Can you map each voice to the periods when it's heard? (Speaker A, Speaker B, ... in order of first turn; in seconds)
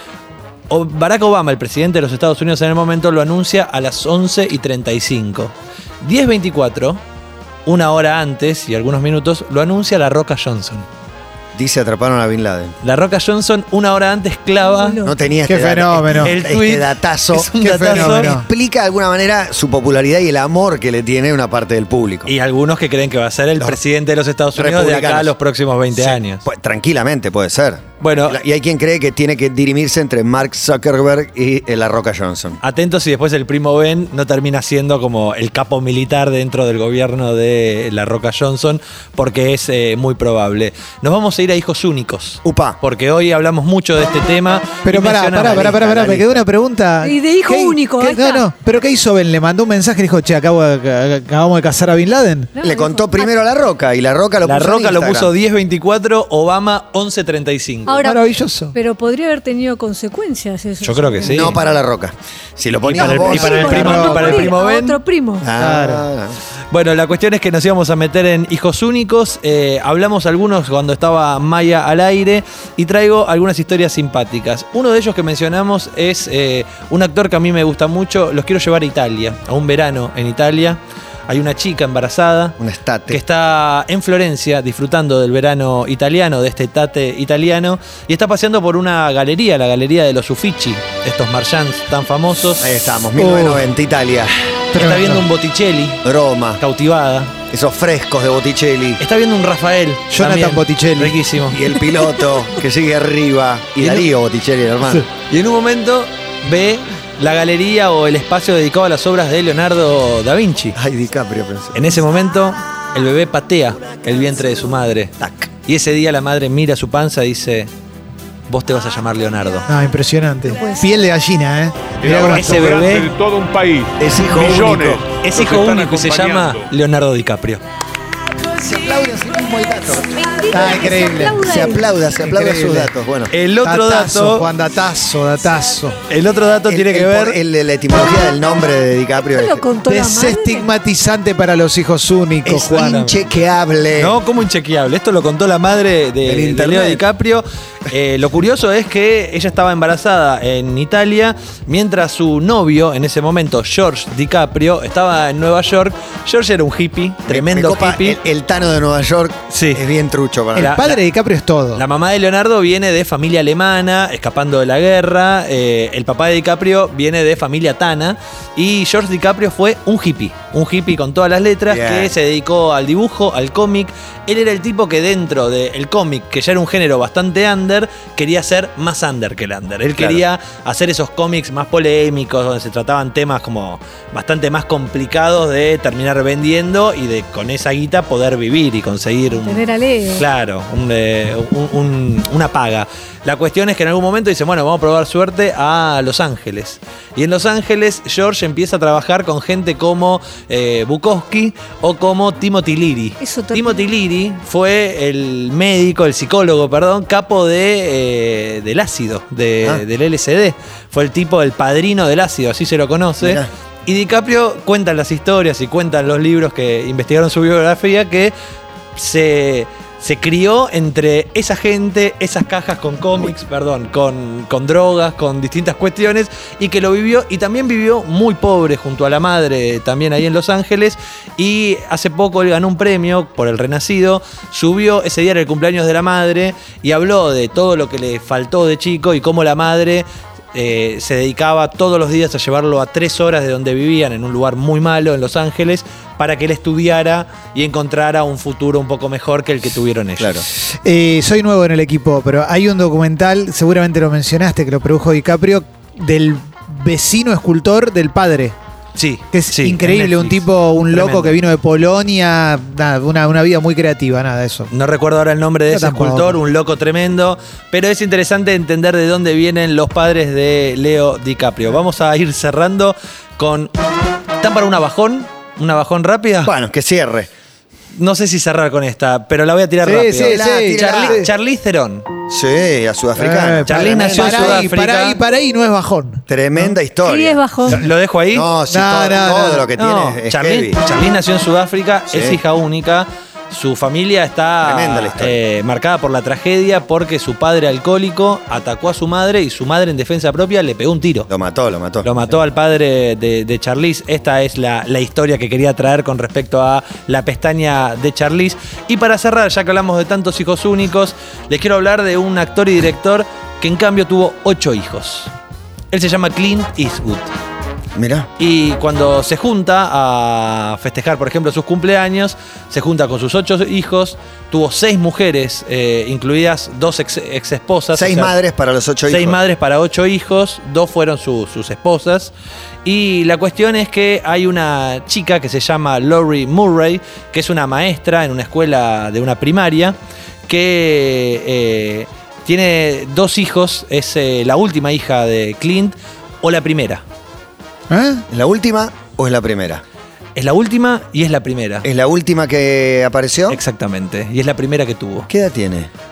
Speaker A: 0.7-7.0, 7.7-10.9, 12.8-15.0, 16.1-18.4, 22.3-26.4, 28.0-28.4, 32.6-46.3, 54.4-58.0, 60.8-61.6, 62.9-65.0, 66.7-82.6, 83.1-92.7, 94.7-96.0, 96.6-97.4, 99.0-101.6, 103.8-104.1, 105.3-110.8, 111.7-115.1, 115.7-117.7, 118.5-119.7, 122.2-123.1, 124.2-127.6, 133.3-134.5, 136.1-137.4, 142.6-143.3, 143.9-158.2, 159.5-159.8, 160.6-161.0, 161.8-218.3, 219.0-250.4, 258.9-261.4, 264.7-273.7, 274.4-276.5, 277.9-282.1, 283.6-285.2, 287.6-288.5, 289.8-301.3, 302.0-315.3, 315.9-317.3, 318.4-328.4, 329.1-332.3, 332.9-347.0, 350.4-351.9, 353.5-355.3
Speaker B: 11.6-12.8, 15.0-22.3, 24.6-25.3, 25.9-32.6, 42.4-42.8, 45.6-46.2, 52.6-55.3, 61.3-64.3, 65.4-66.4, 82.6-83.2, 92.6-94.3, 96.0-96.6, 97.5-99.0, 101.5-105.0, 110.8-111.8, 115.2-115.5, 124.0-125.0, 128.5-130.8, 131.4-133.3, 136.7-139.6, 142.4-144.2, 146.2-147.0, 157.3-160.8, 171.7-172.1, 180.0-180.2, 213.2-213.5, 250.2-250.4, 276.4-277.3, 280.2-281.2, 282.3-284.7, 286.3-287.4, 288.3-290.8, 292.1-292.4, 294.6-295.4, 301.3-302.1, 318.0-318.3, 327.9-329.4, 348.3-349.8, 351.9-353.6, 355.3-355.9
Speaker C: 14.6-15.3, 47.0-48.5, 52.6-53.3, 57.9-61.7, 63.0-65.5, 120.5-121.0, 130.1-131.9, 139.2-140.7, 189.3-190.2, 203.2-203.8, 287.0-287.8
Speaker D: 15.5-16.4, 17.6-18.5, 44.8-52.6, 58.0-58.8, 63.4-64.5, 65.5-66.0, 93.2-93.7, 94.7-95.3, 100.1-101.2, 119.7-122.7, 130.5-131.4, 132.2-132.9, 133.6-136.0, 139.9-143.1, 160.6-161.8, 250.6-258.6, 259.3-264.7, 265.7-266.4, 279.8-281.3, 283.2-286.8, 288.7-289.7, 347.9-348.2
Speaker E: 122.0-126.7